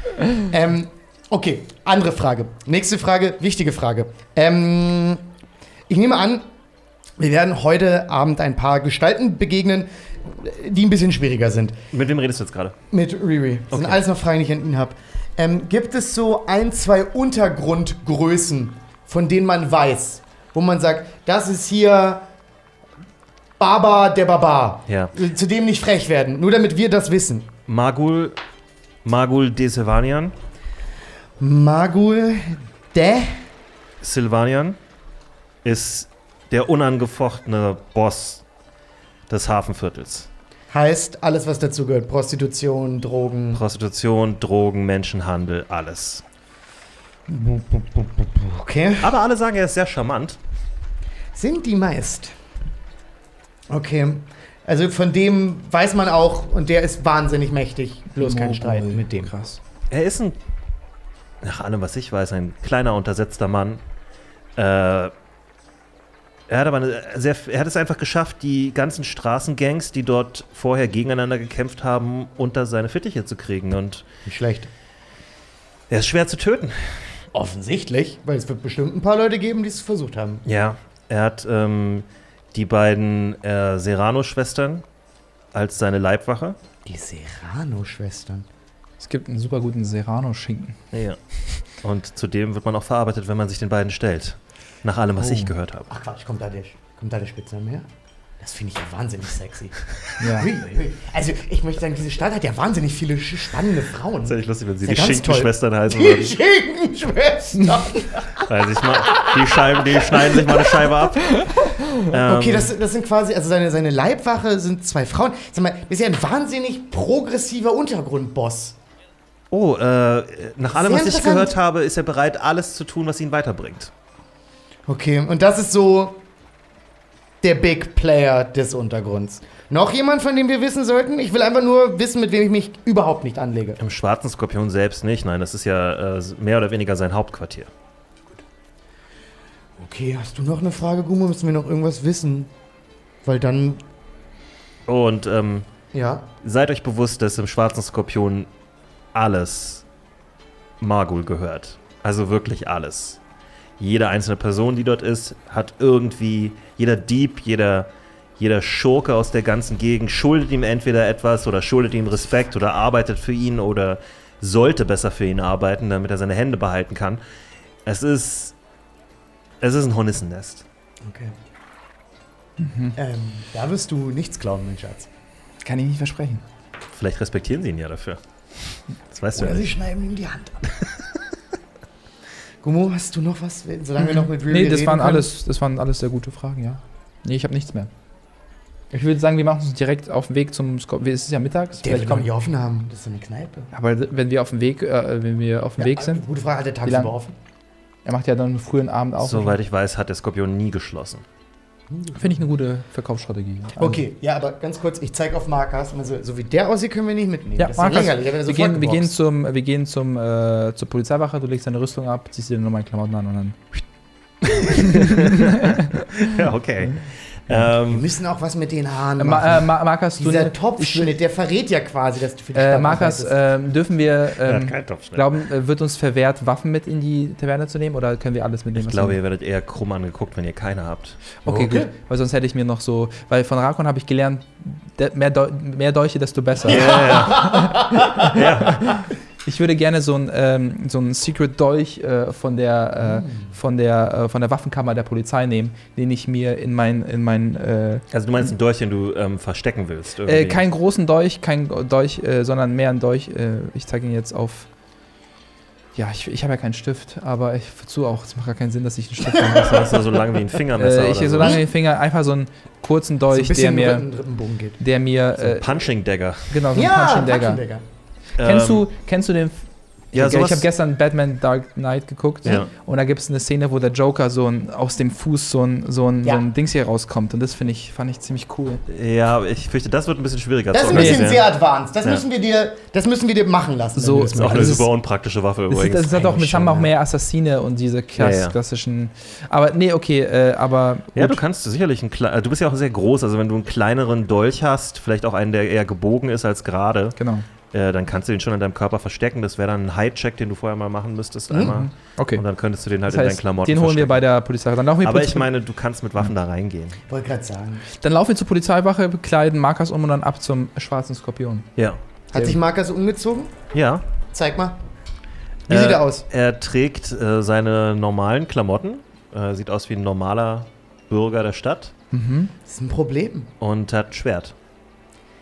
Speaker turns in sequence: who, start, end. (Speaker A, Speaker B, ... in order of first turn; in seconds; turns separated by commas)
Speaker A: 0.3-5.3, Speaker A: 5.9-6.4, Speaker A: 7.2-11.8, Speaker B: 11.9-12.7, Speaker A: 12.9-22.2, Speaker B: 13.7-14.0, Speaker A: 23.6-27.5, Speaker B: 24.9-25.1, Speaker B: 27.7-28.4, Speaker B: 29.0-30.3, Speaker A: 31.4-33.4, Speaker B: 34.0-34.8, Speaker B: 35.6-38.4, Speaker B: 39.3-40.3, Speaker A: 40.7-43.6, Speaker B: 43.5-46.2, Speaker A: 47.3-49.2, Speaker B: 49.0-50.4, Speaker A: 51.3-52.3, Speaker A: 53.7-59.3, Speaker C: 58.1-59.6, Speaker B: 59.9-60.4, Speaker B: 61.4-63.8, Speaker B: 64.6-65.1, Speaker B: 66.5-74.1, Speaker A: 74.2-74.7, Speaker B: 75.9-77.2, Speaker A: 77.3-80.4, Speaker B: 80.5-84.8, Speaker B: 85.5-86.5, Speaker A: 86.8-88.5, Speaker C: 89.0-90.8, Speaker B: 90.9-95.9, Speaker C: 95.2-95.5, Speaker A: 95.9-97.9, Speaker A: 98.4-110.9, Speaker C: 100.2-100.5, Speaker B: 104.2-106.3, Speaker B: 108.4-111.5, Speaker B: 112.0-112.7, Speaker A: 112.1-118.8, Speaker B: 119.5-123.9, Speaker A: 120.7-121.5, Speaker A: 124.9-126.2, Speaker A: 127.4-133.8, Speaker B: 133.8-137.7, Speaker A: 139.8-142.5, Speaker A: 143.2-143.8, Speaker B: 144.9-145.7, Speaker A: 145.9-146.3, Speaker B: 146.4-148.5, Speaker B: 149.1-149.8, Speaker B: 150.8-153.2, Speaker B: 153.8-167.2, Speaker B: 167.8-168.5, Speaker B: 169.6-170.6, Speaker A: 171.0-171.3, Speaker C: 172.6-173.0, Speaker A: 172.9-175.1, Speaker C: 175.6-176.4, Speaker B: 176.9-179.7, Speaker A: 179.3-180.8, Speaker A: 182.6-185.3, Speaker C: 184.0-187.9, Speaker C: 188.9-192.3, Speaker A: 191.8-193.7, Speaker C: 193.7-196.2, Speaker A: 195.8-197.4, Speaker C: 196.8-197.1, Speaker C: 198.1-199.6, Speaker B: 199.2-201.2, Speaker A: 201.9-202.4, Speaker C: 202.1-204.0, Speaker A: 203.8-209.1, Speaker C: 207.6-213.6, Speaker B: 214.4-218.1, Speaker C: 214.7-216.3, Speaker A: 217.8-223.4, Speaker C: 219.2-221.1, Speaker C: 222.5-229.2, Speaker B: 224.4-225.3, Speaker B: 228.7-231.2, Speaker C: 231.4-248.0, Speaker A: 231.4-231.9, Speaker A: 236.6-238.4, Speaker B: 236.7-239.0, Speaker A: 243.0-243.3, Speaker B: 248.1-250.6, Speaker C: 250.2-254.7, Speaker C: 255.9-260.1, Speaker B: 259.4-261.6, Speaker C: 260.8-264.1, Speaker A: 263.3-264.8, Speaker C: 264.8-265.8, Speaker B: 265.4-266.5, Speaker C: 266.5-267.6, Speaker A: 266.7-267.8, Speaker B: 268.4-268.9, Speaker C: 268.4-278.8, Speaker B: 270.1-270.7, Speaker B: 278.9-281.5, Speaker A: 280.7-284.8, Speaker C: 280.9-281.2, Speaker C: 283.9-284.9, Speaker B: 284.3-286.7, Speaker C: 285.7-291.4, Speaker A: 286.4-286.9, Speaker B: 288.2-288.5, Speaker B: 291.1-297.2, Speaker C: 297.2-297.4, Speaker B: 297.7-304.2, Speaker A: 301.5-301.8, Speaker C: 301.6-302.4, Speaker C: 303.1-305.4, Speaker B: 305.0-307.0, Speaker A: 307.1-307.8, Speaker C: 307.9-311.7, Speaker A: 312.3-313.5, Speaker B: 313.7-314.0, Speaker A: 314.3-314.8, Speaker A: 315.7-316.2, Speaker B: 315.7-321.9, Speaker C: 322.1-322.5, Speaker A: 322.6-323.5, Speaker B: 323.6-324.5